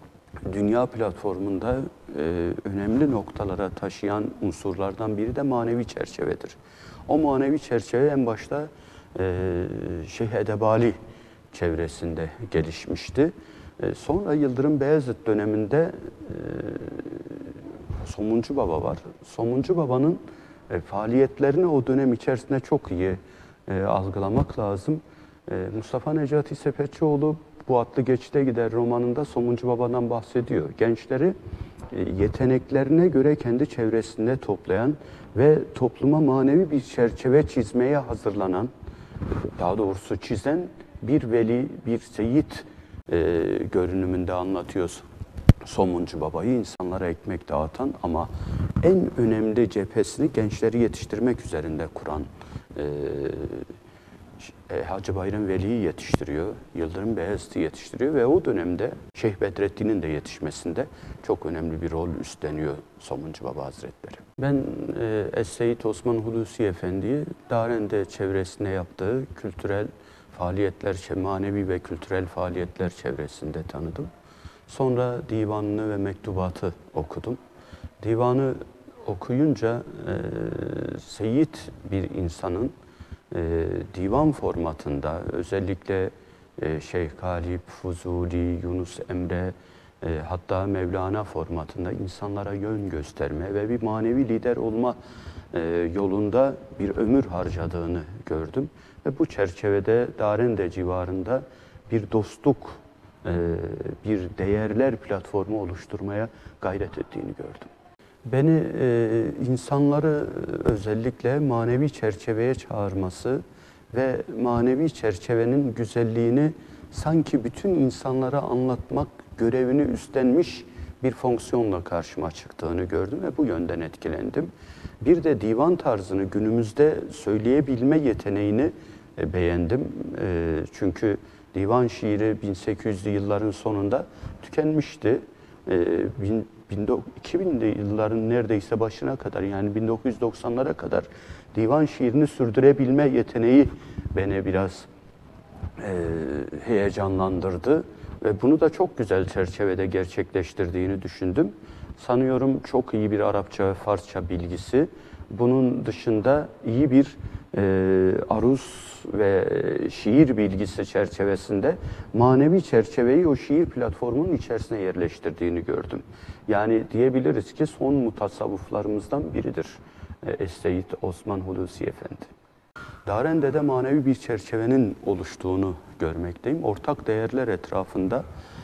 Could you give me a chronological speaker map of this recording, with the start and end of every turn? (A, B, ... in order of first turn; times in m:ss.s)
0:00.5-0:11.0 A
0:11.5-0:31.4 A
0:31.9-0:38.7 A
0:39.6-0:45.0 A
0:45.6-0:48.3 A
0:48.8-0:53.7 A
0:54.4-1:14.1 A
1:14.7-1:17.4 A
1:18.0-1:22.7 A
1:23.3-1:35.0 A
1:35.5-1:47.7 A
1:48.2-2:24.9 A
2:25.8-2:52.3 A
2:53.0-2:58.2 A